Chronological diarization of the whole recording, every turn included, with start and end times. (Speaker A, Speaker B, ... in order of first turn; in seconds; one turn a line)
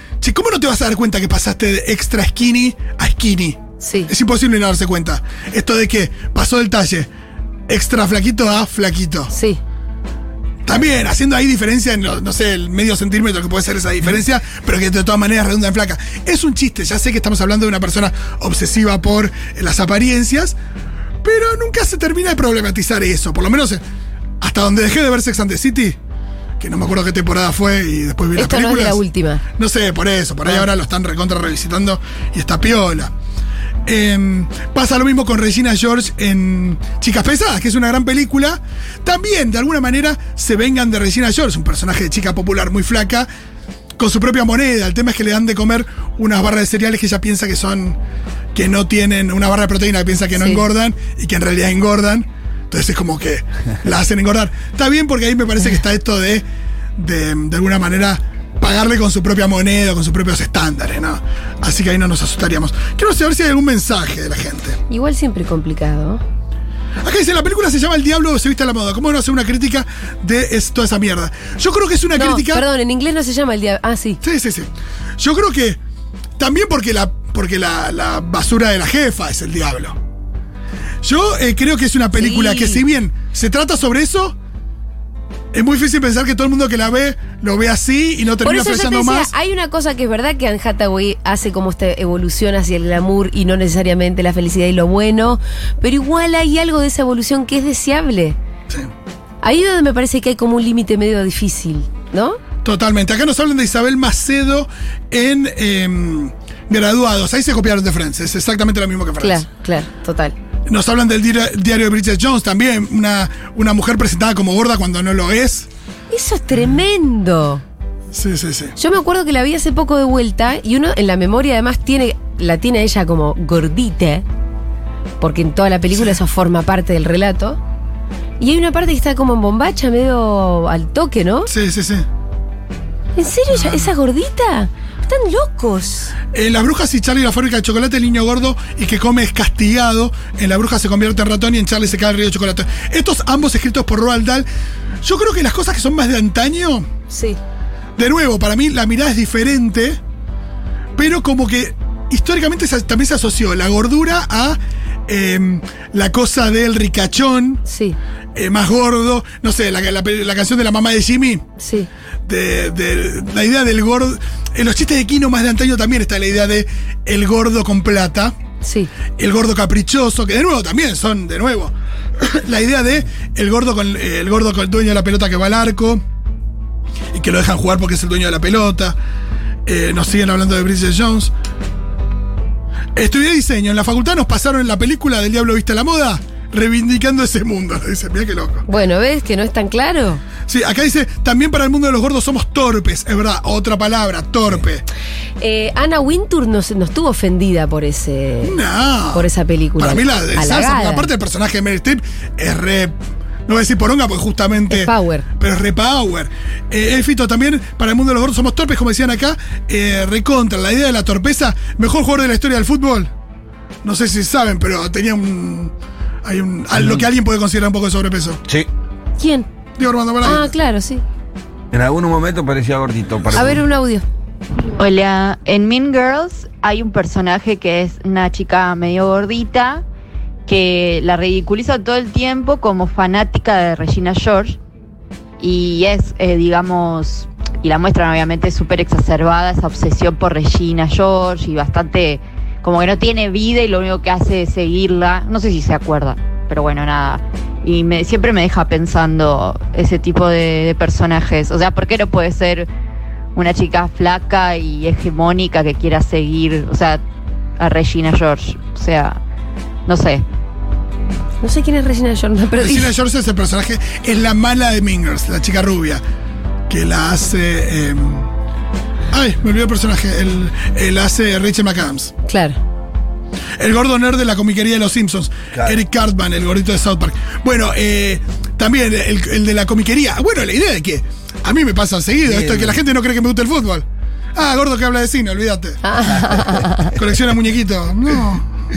Speaker A: 0.2-7.1
Speaker B: 3.8-4.1
Speaker A: 7.7-9.3
Speaker B: 9.3-9.6
Speaker A: 10.7-20.6
Speaker A: 21.2-23.8
Speaker A: 24.4-26.0
Speaker A: 26.6-29.0
Speaker B: 28.4-29.4
Speaker A: 29.6-33.1
Speaker A: 33.9-43.3
Speaker A: 44.0-48.0
Speaker A: 48.5-56.5
Speaker B: 50.4-50.6
Speaker A: 57.0-64.8
Speaker B: 64.9-66.2
Speaker A: 67.0-72.6
Speaker B: 72.2-74.2
Speaker A: 74.2-75.8
Speaker A: 76.4-80.0
Speaker A: 81.0-84.4
Speaker B: 82.1-82.8
Speaker A: 85.5-89.3
Speaker B: 88.4-98.4
Speaker B: 99.4-102.4
Speaker A: 102.6-109.5
Speaker B: 109.2-110.3
Speaker A: 110.7-115.7
Speaker B: 116.1-117.6
Speaker A: 118.1-118.8
Speaker B: 118.8-124.2
Speaker B: 125.2-127.6
Speaker A: 125.9-126.2
Speaker B: 128.4-131.5
Speaker A: 131.5-132.1
Speaker B: 133.2-136.1
Speaker A: 133.5-133.9
Speaker A: 136.3-144.5
Speaker A: 145.0-146.9
Speaker B: 147.1-147.4
Speaker A: 148.0-150.0
Speaker A: 151.0-157.6
Speaker B: 157.7-158.0
Speaker A: 158.3-161.4
Speaker B: 161.6-161.9
Speaker A: 162.3-168.3
Speaker B: 168.6-168.9
Speaker A: 169.2-176.0
Speaker A: 177.1-179.0
Speaker A: 179.7-181.3
Speaker A: 183.0-188.6
Speaker B: 188.7-190.2
Speaker A: 190.5-194.8
Speaker B: 195.4-198.6
Speaker A: 198.4-199.3
Speaker B: 199.1-201.1
Speaker A: 199.8-202.9
Speaker A: 203.5-213.1
Speaker B: 204.7-205.2
Speaker A: 213.8-215.7
Speaker A: 216.2-218.4
Speaker C: 216.8-217.1
Speaker B: 219.2-219.5
Speaker A: 219.8-220.5
Speaker B: 220.2-221.0
Speaker C: 221.7-223.7
Speaker B: 223.3-224.1
Speaker D: 224.8-229.8
Speaker D: 230.5-234.6
Speaker D: 235.4-252.7
Speaker D: 253.3-257.0
Speaker D: 257.6-259.2
Speaker D: 259.9-260.2
Speaker B: 261.4-262.9
Speaker A: 262.6-266.0
Speaker A: 266.7-268.3
Speaker A: 269.1-272.1
Speaker B: 272.2-272.6
Speaker A: 273.6-285.9
Speaker C: 275.5-275.8
Speaker C: 282.2-282.8
Speaker B: 285.8-286.9
Speaker A: 286.9-288.4